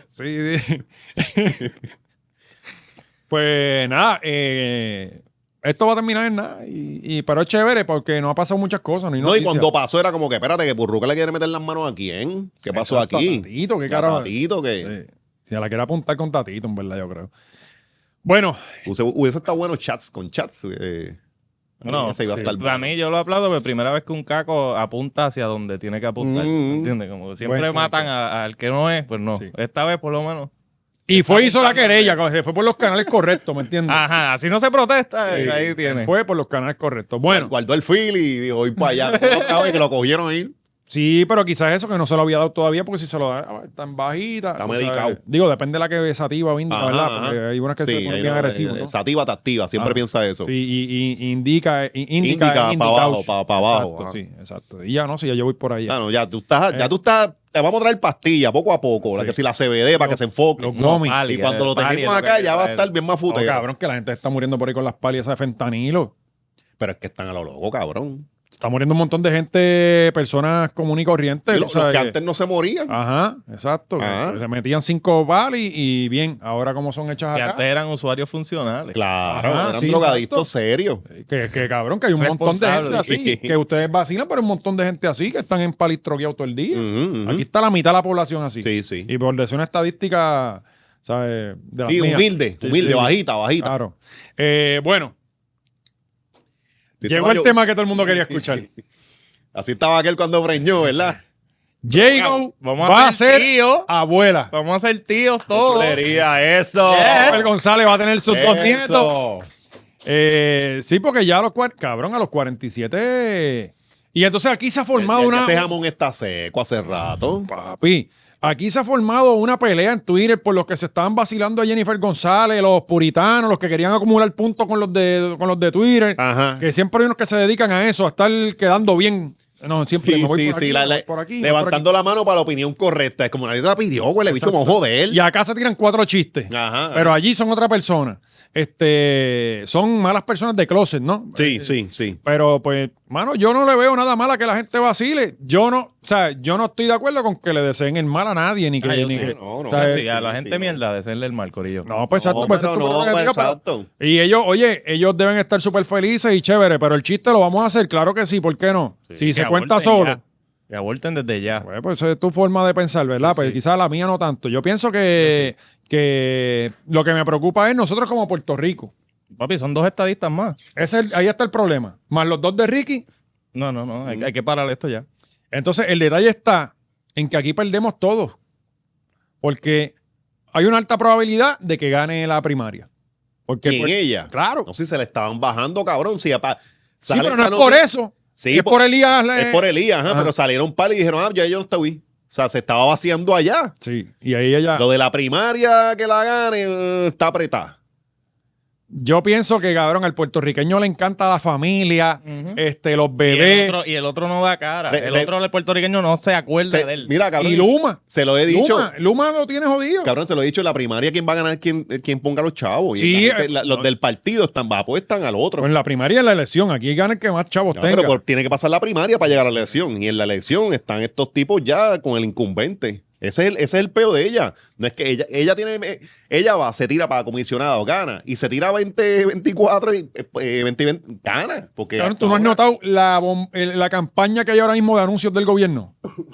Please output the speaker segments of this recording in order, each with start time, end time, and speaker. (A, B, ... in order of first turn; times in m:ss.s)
0:00.1-0:01.7 A
0:03.3-0:09.7 A
0:09.2-0:14.9 B
0:12.7-0:14.3 A
0:14.8-0:17.3 A
0:18.2-0:18.6 A
0:18.9-0:21.2 B
0:21.8-0:22.9 B
0:21.8-0:30.5 C
0:22.3-0:22.5 A
0:26.2-0:26.9 B
0:27.4-0:28.1 A
0:31.1-0:34.0 A
0:31.1-0:32.2 C
0:33.9-0:36.1 C
0:35.3-0:35.8 B
0:35.4-0:37.5 A
0:37.3-0:40.6 B
0:39.0-0:39.8 C
0:40.9-0:48.9 A
0:44.6-0:45.2 B
0:46.7-0:50.5 B
0:49.8-0:56.0 A
0:52.2-0:54.2 B
0:55.9-1:03.6 B
1:00.0-1:01.2 A
1:00.8-1:02.9 C
1:03.3-1:06.1 A
1:06.8-1:08.3 B
1:08.6-1:12.2 A
1:11.5-1:12.9 B
1:12.9-1:17.6 A
1:14.0-1:14.4 B
1:17.4-1:19.0 C
1:18.9-1:21.0 B
1:19.3-1:20.5 A
1:21.2-1:32.3 A
1:22.2-1:23.1 C
1:22.7-1:23.6 B
1:26.7-1:27.4 B
1:28.6-1:29.1 B
1:31.9-1:33.8 B
1:32.6-1:33.1 C
1:33.6-1:35.1 A
1:37.0-1:38.6 B
1:37.0-1:38.7 A
1:39.5-1:41.2 B
1:41.8-1:44.5 A
1:41.9-1:42.4 B
1:42.6-1:43.9 C
1:44.5-1:46.0 C
1:45.5-1:47.5 B
1:46.9-1:47.5 C
1:47.1-1:49.1 A
1:48.3-1:49.5 B
1:50.0-1:55.7 A
1:55.0-1:57.5 B
1:57.5-2:11.8 A
2:06.2-2:06.6 B
2:10.0-2:15.2 B
2:14.3-2:30.0 A
2:16.5-2:17.2 B
2:21.4-2:22.2 B
2:28.8-2:31.9 C
2:29.2-2:30.8 B
2:31.9-2:40.2 A
2:32.2-2:33.9 B
2:39.1-2:41.6 C
2:41.6-2:48.9 A
2:43.2-2:43.6 C
2:45.2-2:45.5 C
2:49.3-2:50.6 C
2:50.8-2:53.1 A
2:53.6-2:55.1 C
2:55.5-2:58.4 A
2:59.4-2:59.9 A
3:00.5-3:02.9 A
3:03.5-3:04.7 A
3:03.6-3:07.8 B
3:07.1-3:10.3 A
3:08.4-3:13.7 B
3:13.8-3:14.9 A
3:14.8-3:17.8 B
3:18.9-3:23.8 A
3:22.2-3:22.6 C
3:23.3-3:27.1 C
3:24.9-3:25.3 B
3:26.7-3:28.9 B
3:27.4-3:30.1 A
3:30.0-3:35.7 B
3:33.0-3:33.9 A
3:35.6-3:38.2 A
3:37.7-3:52.6 B
3:52.0-3:55.9 A